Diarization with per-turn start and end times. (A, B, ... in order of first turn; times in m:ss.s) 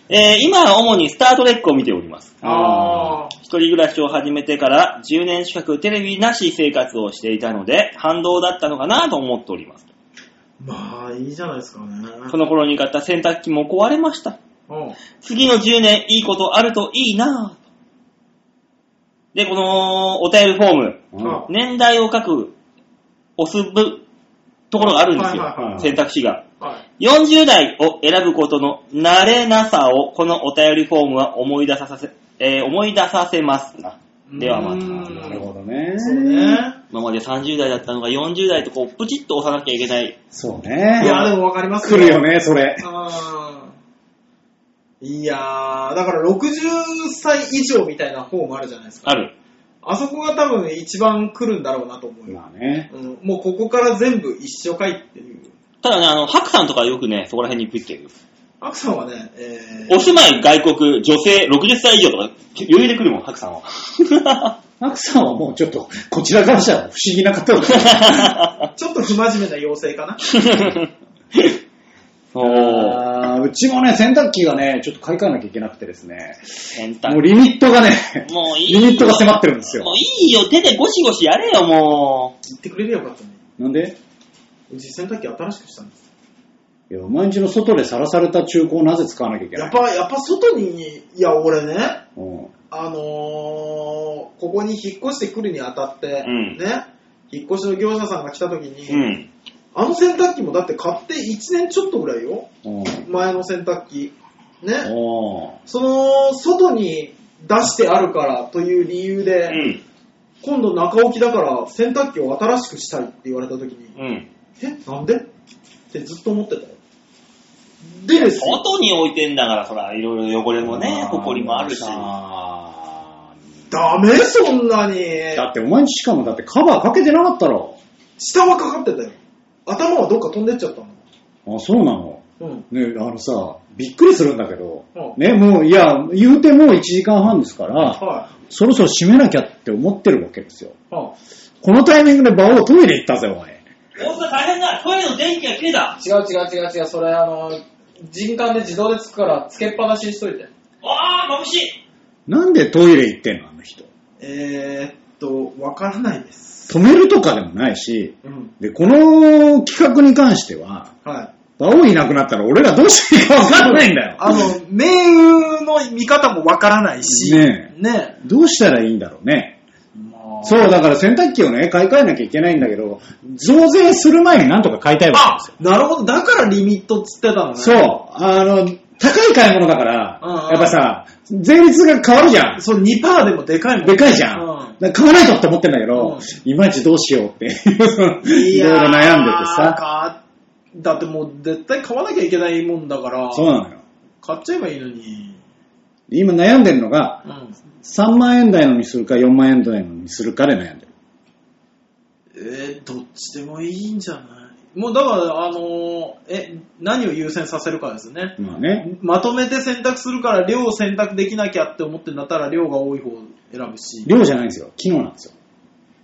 0:00.1-0:02.4 A
0:02.4-0:03.2 B
0:02.4-0:03.3 C
0:03.3-0:09.9 A
0:10.6-0:12.4 C
0:12.3-0:14.4 A
0:14.7-0:15.0 C
0:15.2-0:17.6 A
0:19.3-0:22.5 A
0:21.1-0:21.4 B
0:21.2-0:21.5 C
0:23.4-0:24.0 A
0:24.7-0:26.4 A
0:25.0-0:26.0 C
0:25.6-0:25.9 B
0:27.0-0:35.0 A
0:34.3-0:35.4 C
0:34.8-0:36.6 B
0:36.0-0:36.8 C
0:36.9-0:40.2 A
0:40.3-0:41.2 B
0:41.0-0:42.3 C
0:41.0-0:41.3 A
0:41.8-0:42.9 B
0:42.8-0:43.8 C
0:45.0-0:49.2 C
0:49.0-0:49.3 A
0:49.8-0:55.5 C
0:52.3-0:52.9 B
0:55.8-0:58.1 A
0:58.6-1:00.1 C
0:59.9-1:04.5 A
1:04.8-1:08.4 B
1:07.7-1:08.6 A
1:08.8-1:10.2 C
1:10.3-1:11.6 A
1:12.3-1:13.0 A
1:12.4-1:20.0 B
1:16.7-1:17.2 A
1:18.2-1:22.3 A
1:22.4-1:23.4 C
1:23.6-1:24.0 B
1:24.7-1:26.0 C
1:26.9-1:29.8 B
1:29.5-1:32.0 C
1:32.2-1:32.5 B
1:32.7-1:39.1 C
1:36.2-1:36.6 A
1:38.9-1:39.3 A
1:39.7-1:42.5 C
1:42.6-1:43.0 B
1:43.0-1:44.9 C
1:44.8-1:45.6 B
1:45.6-1:49.6 C
1:49.5-1:49.8 A
1:50.4-1:54.0 C
1:54.0-1:54.3 A
1:54.6-1:55.3 C
1:55.9-1:56.8 C
1:57.8-1:58.6 C
1:58.2-2:02.1 A
2:00.6-2:03.2 B
2:03.7-2:05.4 C
2:05.3-2:07.8 B
2:08.2-2:11.0 C
2:11.4-2:20.7 B
2:12.4-2:12.6 C
2:17.9-2:18.3 C
2:20.9-2:21.1 C
2:21.6-2:23.6 B
2:24.0-2:26.0 A
2:26.0-2:30.5 C
2:30.8-2:31.8 A
2:32.3-2:33.9 B
2:34.2-2:36.8 C
2:36.7-2:40.9 B
2:38.2-2:38.5 C
2:41.0-2:41.3 C
2:41.6-2:44.5 B
2:43.7-2:48.2 C
2:47.0-2:49.6 B
2:49.9-2:50.7 C
2:50.4-2:55.5 B
2:55.1-2:57.9 C
2:57.6-3:02.6 B
3:00.2-3:00.8 C
3:02.6-3:04.8 C
3:03.8-3:09.8 B
3:05.9-3:06.3 C
3:08.2-3:10.2 C
3:10.7-3:13.5 C
3:13.3-3:13.8 B
3:14.2-3:15.4 C
3:16.1-3:17.2 B
3:17.2-3:17.6 C
3:17.8-3:20.9 B
3:22.3-3:34.1 C
3:28.4-3:28.8 B
3:34.0-3:35.3 B